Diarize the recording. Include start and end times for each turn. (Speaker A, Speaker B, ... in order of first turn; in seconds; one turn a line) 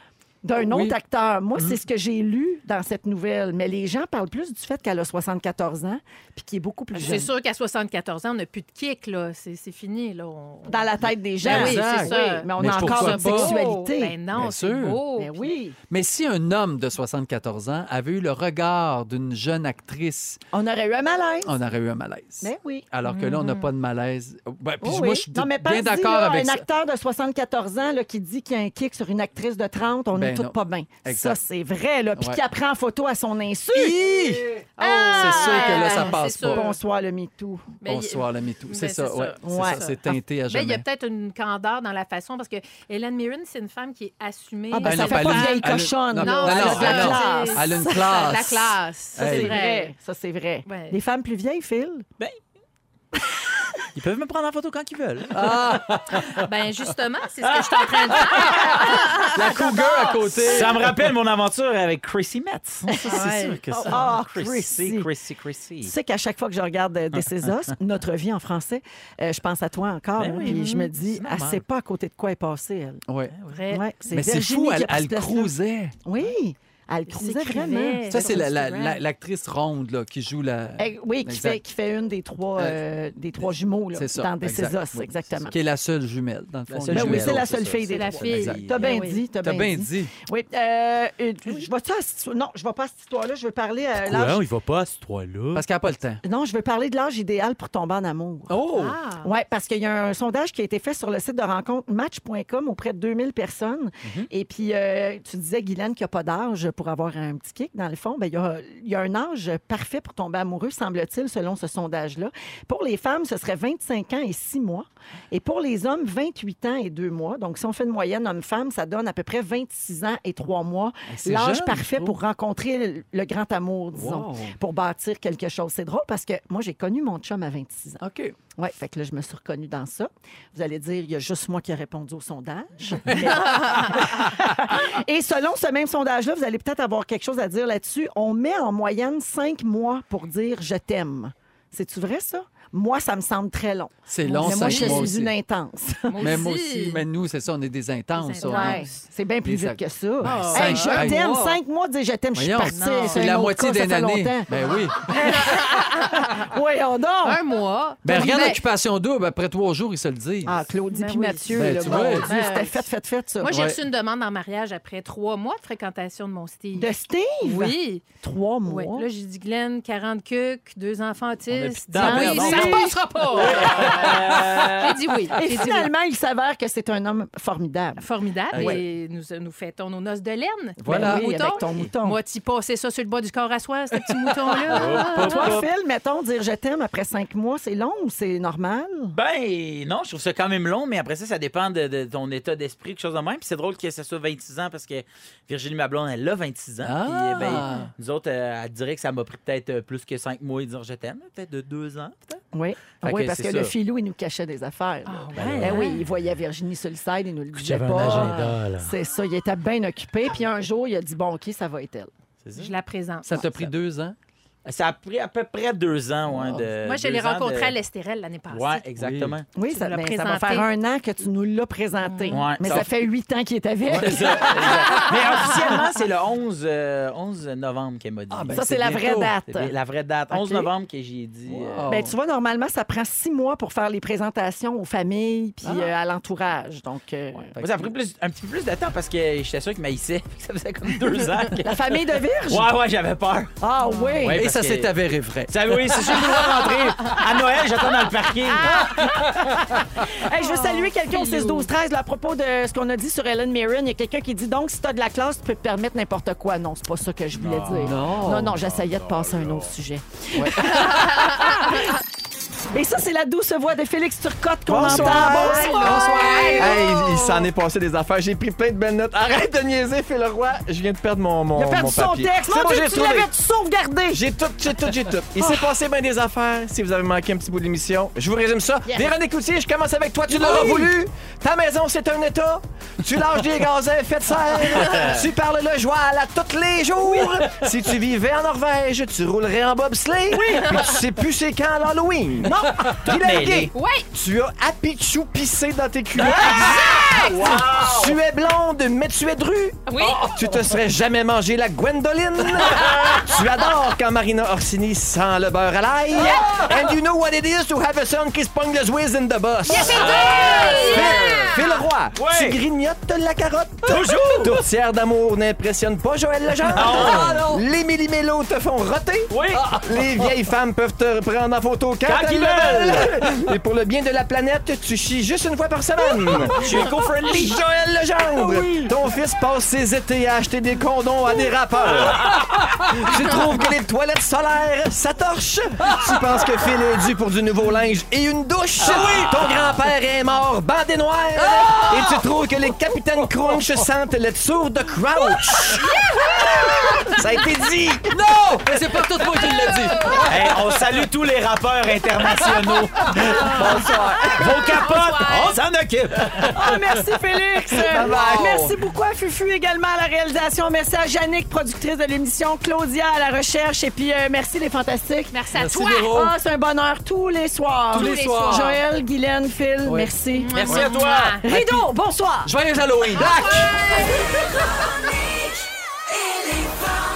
Speaker A: 0.4-7.3
Speaker B: 0.6-0.9
Speaker C: 6.9-10.9
Speaker A: 10.7-14.2
Speaker C: 11.4-15.5
Speaker B: 11.4-13.5
Speaker B: 14.3-15.0
Speaker A: 15.2-15.8
Speaker B: 15.9-20.4
Speaker A: 20.5-21.6
Speaker B: 21.4-26.6
Speaker A: 22.4-22.9
Speaker C: 23.1-23.7
Speaker A: 24.8-34.1
Speaker B: 30.1-31.4
Speaker B: 33.7-36.7
Speaker C: 34.8-36.8
Speaker A: 35.1-37.7
Speaker C: 37.8-49.9
Speaker B: 37.8-40.9
Speaker A: 39.4-40.2
Speaker A: 44.7-48.3
Speaker B: 44.8-49.6
Speaker A: 49.2-52.1
Speaker C: 50.7-51.0
Speaker D: 53.9-55.6
Speaker B: 55.3-56.5
Speaker C: 56.1-59.3
Speaker D: 57.5-58.8
Speaker B: 58.1-61.1
Speaker A: 59.4-60.4
Speaker D: 60.2-65.9
Speaker A: 62.9-65.1
Speaker C: 63.0-64.0
Speaker A: 65.8-73.0
Speaker D: 70.2-71.6
Speaker C: 70.4-70.9
Speaker B: 73.1-73.3
Speaker D: 73.3-73.6
Speaker C: 73.5-73.9
Speaker A: 73.7-78.5
Speaker B: 74.1-76.0
Speaker C: 77.1-79.0
Speaker B: 78.1-81.6
Speaker A: 80.8-85.6
Speaker B: 83.9-87.5
Speaker D: 86.7-88.9
Speaker A: 86.9-94.4
Speaker C: 87.9-89.2
Speaker B: 88.3-88.6
Speaker B: 89.4-90.1
Speaker D: 94.0-95.7
Speaker B: 95.5-96.2
Speaker A: 96.2-98.6
Speaker B: 98.5-99.0
Speaker C: 98.7-99.3
Speaker A: 99.2-128.0
Speaker D: 104.0-104.3
Speaker B: 121.1-122.2
Speaker B: 123.9-124.5
Speaker B: 128.0-128.4
Speaker A: 128.6-146.4
Speaker B: 133.1-134.7
Speaker C: 133.7-134.0
Speaker B: 144.1-145.3
Speaker C: 144.2-145.1
Speaker C: 146.1-147.1
Speaker B: 146.2-148.9
Speaker C: 148.2-149.1
Speaker A: 148.4-157.4
Speaker B: 149.4-151.2
Speaker C: 150.2-151.6
Speaker B: 152.4-155.4
Speaker C: 152.6-153.3
Speaker C: 155.1-156.5
Speaker C: 157.2-158.6
Speaker B: 158.0-160.6
Speaker A: 158.1-158.5
Speaker A: 160.4-163.6
Speaker C: 160.9-162.8
Speaker B: 161.5-162.3
Speaker C: 163.4-166.9
Speaker B: 163.5-163.8
Speaker A: 166.7-169.1
Speaker C: 167.4-168.0
Speaker C: 168.7-175.9
Speaker D: 171.5-175.0
Speaker A: 171.9-174.6
Speaker B: 171.9-172.5
Speaker B: 173.7-174.5
Speaker A: 175.3-178.8
Speaker C: 178.0-185.6
Speaker B: 178.5-178.8
Speaker A: 180.8-182.2
Speaker B: 180.8-181.3
Speaker B: 184.1-184.5
Speaker D: 184.7-185.7
Speaker A: 185.0-189.2
Speaker D: 189.1-202.4
Speaker B: 196.8-197.9
Speaker A: 202.5-212.1
Speaker D: 203.0-203.7
Speaker C: 205.1-206.0
Speaker D: 205.3-205.8
Speaker D: 207.5-208.9
Speaker B: 207.9-208.4
Speaker D: 212.4-212.7
Speaker C: 212.6-213.4
Speaker B: 213.2-214.2
Speaker D: 213.4-213.7
Speaker D: 214.7-217.8
Speaker B: 216.3-216.6
Speaker C: 216.8-218.8
Speaker D: 218.5-219.4
Speaker B: 219.0-219.4
Speaker A: 219.5-225.9
Speaker C: 219.7-220.7
Speaker C: 222.0-222.5
Speaker D: 222.3-222.9
Speaker D: 223.9-228.6
Speaker B: 223.9-225.1
Speaker B: 228.3-229.3
Speaker A: 228.5-229.7
Speaker D: 229.5-231.9
Speaker A: 230.3-230.7
Speaker B: 231.5-232.2
Speaker A: 231.9-237.6
Speaker B: 235.6-235.9
Speaker B: 237.5-237.9
Speaker D: 237.6-241.7
Speaker A: 241.6-242.7
Speaker D: 242.4-243.5
Speaker A: 243.6-244.4
Speaker C: 243.8-244.2
Speaker D: 244.2-244.9
Speaker B: 244.3-246.8
Speaker D: 245.5-248.8
Speaker A: 246.2-247.2
Speaker A: 248.6-261.9
Speaker C: 250.4-251.7
Speaker D: 257.3-259.7
Speaker B: 257.7-258.6
Speaker B: 260.4-260.7
Speaker C: 261.0-261.2
Speaker A: 262.7-266.5
Speaker B: 264.7-266.8
Speaker E: 264.7-273.3
Speaker D: 264.9-265.4
Speaker C: 265.3-266.8
Speaker A: 271.6-274.3
Speaker E: 274.1-348.1
Speaker A: 280.4-280.7
Speaker D: 284.7-285.3
Speaker A: 290.4-290.7
Speaker D: 292.5-293.7
Speaker C: 293.7-294.1
Speaker D: 296.3-298.1
Speaker C: 296.3-297.6
Speaker B: 297.2-297.9
Speaker C: 299.9-300.3
Speaker B: 300.0-300.6
Speaker D: 302.8-303.3
Speaker B: 306.4-306.7
Speaker C: 309.7-311.7
Speaker D: 309.7-312.6
Speaker B: 309.9-310.9
Speaker D: 313.9-314.6
Speaker D: 316.7-317.4
Speaker B: 316.7-317.6
Speaker D: 319.3-319.6
Speaker B: 319.5-320.4
Speaker D: 322.1-323.6
Speaker D: 326.4-327.6
Speaker B: 326.5-326.8
Speaker B: 332.3-333.3
Speaker B: 335.9-336.2
Speaker B: 338.8-339.8
Speaker B: 341.4-342.3
Speaker B: 342.9-343.6
Speaker B: 345.4-347.2
Speaker B: 348.1-350.8
Speaker C: 349.7-350.2
Speaker D: 350.3-356.6
Speaker B: 352.2-354.4
Speaker C: 353.4-355.6
Speaker E: 353.4-354.4
Speaker A: 353.5-354.1
Speaker B: 356.4-357.0
Speaker A: 356.5-365.3
Speaker B: 357.7-358.8
Speaker E: 357.9-358.5
Speaker C: 365.3-366.1
Speaker B: 365.5-366.3
Speaker A: 366.1-370.6
Speaker C: 367.9-368.8
Speaker B: 367.9-368.7
Speaker B: 369.9-370.1
Speaker C: 370.3-371.5
Speaker D: 370.6-371.4
Speaker B: 371.5-371.9
Speaker A: 371.5-372.5
Speaker B: 372.4-373.9